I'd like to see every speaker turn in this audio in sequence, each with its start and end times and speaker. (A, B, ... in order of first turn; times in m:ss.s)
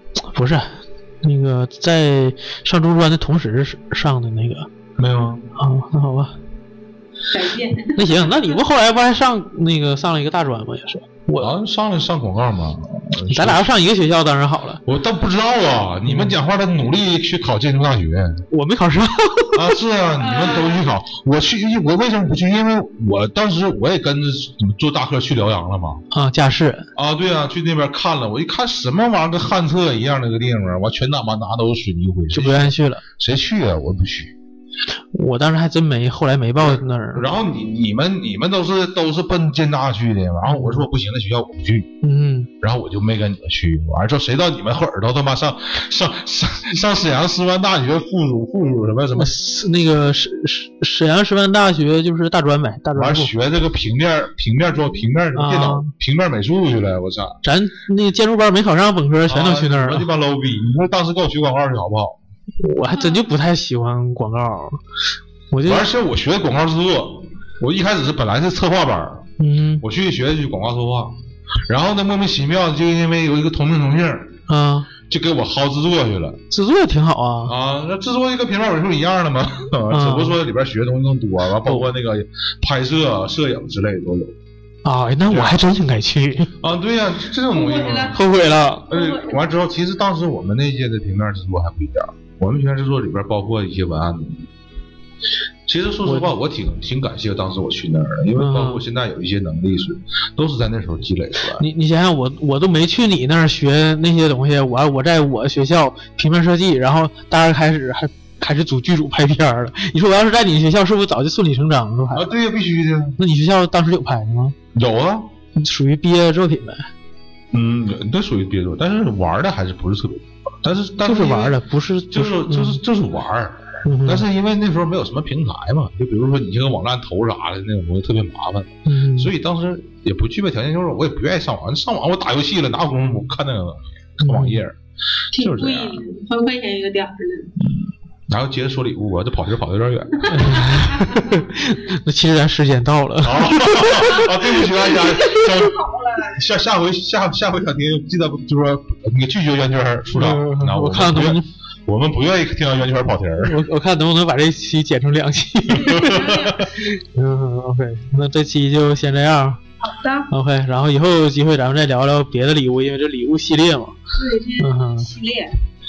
0:00.3-0:04.7 A
0:05.0-0:05.5 B
0:05.6-0:06.4 A
0:07.3-0:08.5 C
0:08.0-0:11.5 A
0:11.4-0:13.7 B
0:13.3-0:14.8 A
0:14.8-0:18.4 B
0:16.0-0:16.4 A
0:18.5-0:19.7 A
0:19.5-0:26.0 B
0:20.2-0:20.9 C
0:26.1-0:26.9 A
0:26.9-0:34.3 B
0:32.3-0:33.0 A
0:35.1-0:37.2 A
0:36.6-0:41.9 B
0:40.4-0:40.8 A
0:42.0-0:42.5 A
0:42.6-0:49.3 B
0:49.2-0:53.3 A
0:52.9-0:57.4 B
0:55.4-0:55.9 A
0:57.4-1:00.1 A
0:59.3-1:02.2 B
1:02.6-1:04.8 A
1:02.9-1:03.3 C
1:05.5-1:05.9 A
1:05.6-1:09.3 B
1:09.4-1:09.8 A
1:09.8-1:11.2 B
1:11.7-1:14.4 B
1:14.5-1:14.9 A
1:15.1-1:16.4 B
1:16.5-1:17.5 A
1:17.4-1:24.4 B
1:19.9-1:20.4 A
1:24.8-1:26.5 A
1:25.3-1:25.6 B
1:26.6-1:28.2 B
1:27.5-1:28.2 C
1:28.1-1:28.9 A
1:28.9-1:34.5 B
1:28.9-1:29.4 C
1:35.7-1:41.6 B
1:36.0-1:36.3 A
1:38.4-1:38.8 A
1:41.6-1:52.3 A
1:52.1-1:53.2 B
1:53.2-1:54.6 A
1:54.7-1:55.3 B
1:55.6-1:56.9 A
1:57.5-2:01.6 B
2:01.0-2:02.8 A
2:02.1-2:14.8 B
2:03.8-2:04.2 A
2:08.8-2:09.3 A
2:14.2-2:14.6 A
2:15.3-2:16.0 B
2:15.3-2:17.5 C
2:17.6-2:20.6 B
2:20.3-2:24.4 A
2:20.4-2:21.4 C
2:23.2-2:33.6 B
2:24.7-2:26.4 C
2:30.1-2:31.4 A
2:33.4-2:36.3 A
2:35.7-2:36.7 C
2:35.8-2:36.8 B
2:37.1-2:39.6 A
2:39.8-2:40.3 C
2:40.3-2:44.0 A
2:44.1-2:45.6 C
2:44.6-2:45.1 A